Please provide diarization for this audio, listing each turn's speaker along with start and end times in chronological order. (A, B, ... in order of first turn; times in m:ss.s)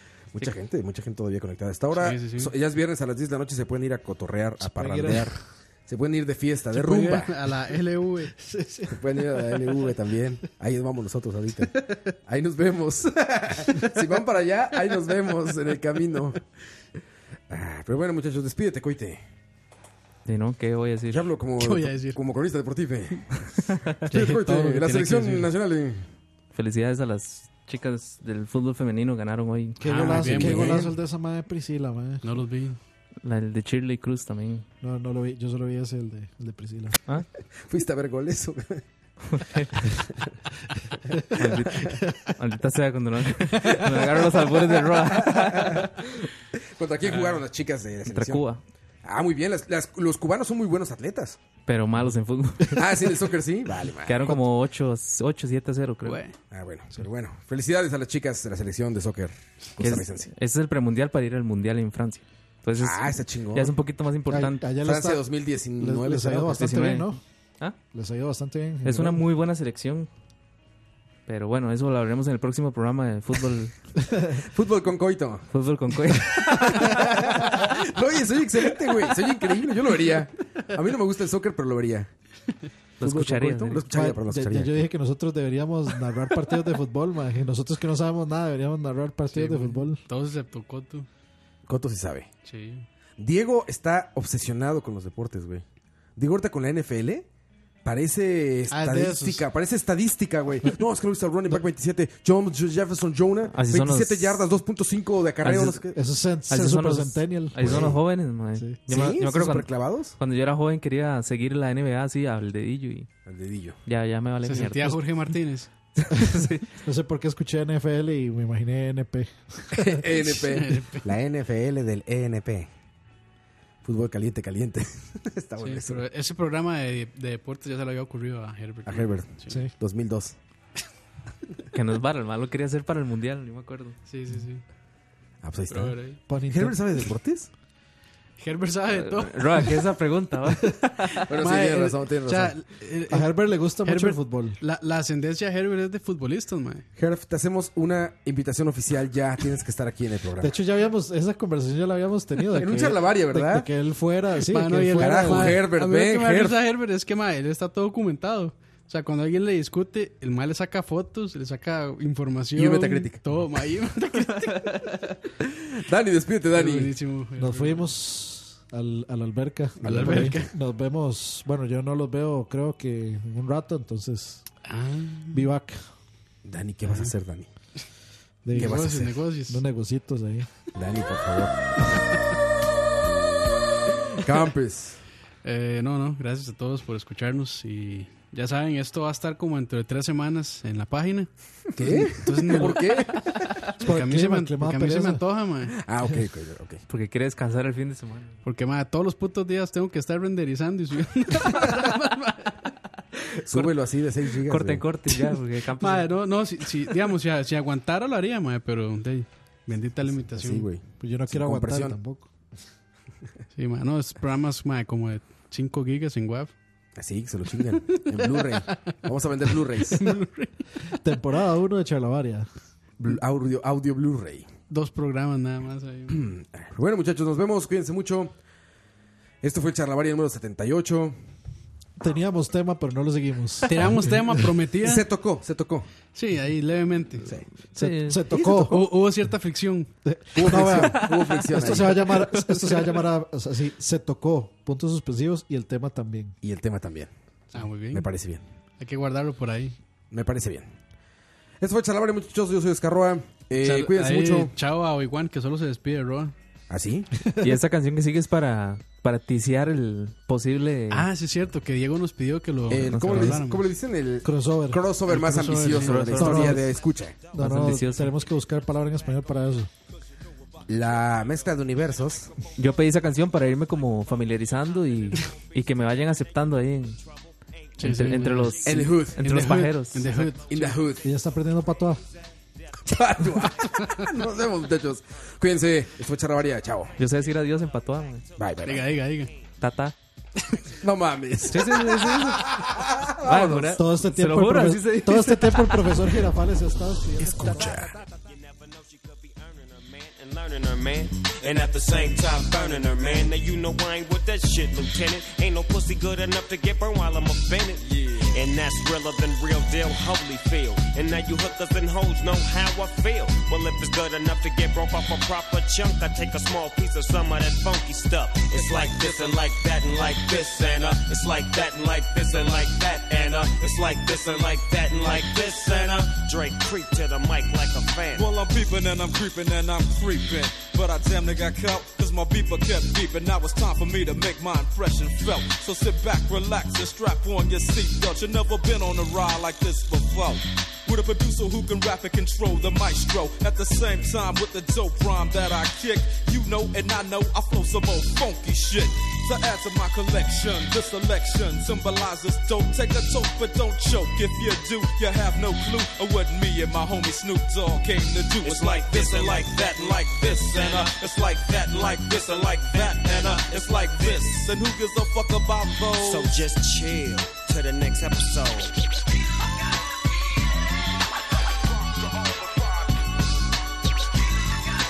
0:00.3-0:07.4 A
0:01.9-0:02.5 B
0:04.7-0:05.2 C
0:04.8-0:05.2 B
0:06.7-0:08.9 B
0:08.9-0:11.7 A
0:11.8-0:12.1 B
0:12.3-0:16.4 A
0:17.5-0:19.2 A
0:20.3-0:21.2 D
0:21.1-0:26.1 A
0:21.6-0:22.2 B
0:24.1-0:25.5 B
0:26.5-0:30.5 D
0:29.8-0:32.2 C
0:29.8-0:30.9 B
0:30.2-0:30.9 A
0:32.2-0:32.8 B
0:33.2-0:34.6 D
0:34.8-0:37.0 C
0:37.6-0:38.8 A
0:39.3-0:39.9 D
0:41.1-0:41.4 C
0:41.4-0:45.9 D
0:43.6-0:48.5 A
0:47.1-0:47.4 B
0:48.1-0:48.6 D
0:49.0-0:51.4 A
0:51.7-0:52.8 D
0:52.7-0:54.3 A
0:54.1-0:56.2 D
0:56.0-0:56.4 B
0:56.5-1:00.3 A
0:59.8-1:04.7 D
1:02.8-1:03.7 A
1:04.3-1:05.2 C
1:04.8-1:06.8 A
1:05.8-1:07.2 C
1:06.6-1:07.1 D
1:07.9-1:09.2 C
1:08.8-1:10.1 D
1:11.3-1:13.8 D
1:14.4-1:15.5 A
1:15.5-1:17.2 D
1:16.6-1:22.1 A
1:23.0-1:23.8 D
1:23.0-1:24.9 A
1:23.9-1:30.0 C
1:29.3-1:31.1 B
1:31.7-1:32.3 A
1:32.4-1:32.9 B
1:33.2-1:35.6 A
1:36.2-1:37.3 A
1:37.8-1:46.0 A
1:38.7-1:39.4 B
1:43.5-1:44.4 D
1:45.4-1:45.8 D
1:45.8-1:48.0 C
1:46.5-1:53.1 D
1:47.6-1:48.0 A
1:48.9-1:50.2 A
1:53.3-1:53.8 A
1:53.9-1:55.3 D
1:54.4-1:55.7 B
1:56.0-1:56.6 D
1:56.8-2:00.1 C
1:59.8-2:02.7 A
2:00.4-2:01.0 B
2:03.8-2:06.0 A
2:05.6-2:09.7 B
2:08.9-2:10.4 A
2:11.7-2:14.0 D
2:14.1-2:14.6 B
2:15.4-2:17.5 A
2:15.7-2:16.2 B
2:16.3-2:16.8 C
2:18.4-2:19.9 B
2:18.9-2:21.2 D
2:21.1-2:26.9 B
2:21.3-2:22.6 A
2:23.1-2:24.6 C
2:27.0-2:30.6 A
2:30.4-2:35.6 C
2:32.5-2:33.7 A
2:34.4-2:44.9 B
2:34.9-2:36.6 A
2:42.6-2:43.2 A
2:45.8-2:47.0 A
2:46.5-2:47.9 B
2:47.4-2:54.5 C
2:49.8-2:50.5 B
2:49.8-2:50.4 A
2:54.7-2:55.5 B
2:55.3-2:55.8 C
2:56.4-2:57.5 A
2:58.4-2:58.9 C
2:58.5-2:59.6 B
2:58.6-2:59.2 A
2:59.5-3:00.5 C
3:00.7-3:01.8 A
3:04.2-3:05.0 A
3:05.4-3:11.3 B
3:11.8-3:13.7 A
3:11.8-3:12.1 C
3:12.2-3:13.2 B
3:13.8-3:15.2 C
3:13.8-3:15.7 B
3:15.7-3:16.8 A
3:16.9-3:18.4 D
3:18.4-3:22.7 B
3:23.5-3:24.9 A
3:24.4-3:26.2 D
3:25.8-3:30.7 B
3:30.4-3:32.0 A
3:31.0-3:32.3 C
3:33.5-3:36.5 B
3:37.0-3:40.2 A
3:37.9-3:39.0 B
3:39.9-3:40.6 B
3:40.9-3:42.5 C
3:43.0-3:44.5 A
3:44.7-3:46.2 B
3:46.1-3:48.3 A
3:49.4-3:51.2 A
3:52.0-3:54.1 C
3:53.7-3:55.0 B
3:54.8-3:55.9 A
3:56.1-3:57.3 B
3:57.8-3:58.2 D
3:57.8-3:58.8 C
3:58.2-3:59.0 A
3:58.6-3:59.9 B
4:00.1-4:06.4 C
4:00.3-4:02.2 A
4:00.7-4:03.0 D
4:06.4-4:07.1 A
4:07.5-4:08.1 B
4:07.9-4:08.4 A
4:08.8-4:09.8 B
4:10.1-4:10.7 A
4:11.6-4:14.5 A
4:13.6-4:16.4 B
4:16.7-4:17.1 A
4:17.2-4:17.6 C
4:17.4-4:21.1 D
4:20.9-4:23.7 B
4:22.7-4:27.2 A
4:22.8-4:23.4 D
4:24.2-4:24.8 C
4:25.1-4:26.6 B
4:25.7-4:26.6 D
4:26.2-4:26.6 C
4:26.7-4:29.7 E
4:27.3-4:29.7 C
4:27.4-4:28.1 D
4:30.7-4:32.3 A
4:32.3-4:38.9 E
4:32.6-4:37.0 D
4:37.8-4:40.8 B
4:37.8-4:40.3 D
4:38.6-4:39.6 A
4:40.1-4:44.8 E
4:40.5-4:41.1 A
4:41.0-4:42.0 C
4:42.8-4:47.0 A
4:45.5-4:45.8 E
4:46.6-4:50.9 E
4:47.0-4:48.2 D
4:48.4-4:49.1 A
4:48.6-4:49.3 B
4:49.6-4:50.0 D
4:50.8-4:53.8 A
4:51.5-4:52.5 D
4:51.5-4:53.0 E
4:53.2-4:56.1 D
4:53.8-4:57.6 C
4:56.7-5:28.3 E
4:57.2-4:58.0 A
5:01.7-5:03.3 F
5:08.0-5:08.3 F
5:18.7-5:19.1 F
5:25.2-5:25.8 F
5:28.1-6:06.4 F
5:58.4-6:01.0 E
6:02.2-6:04.2 E
6:06.0-6:08.8 E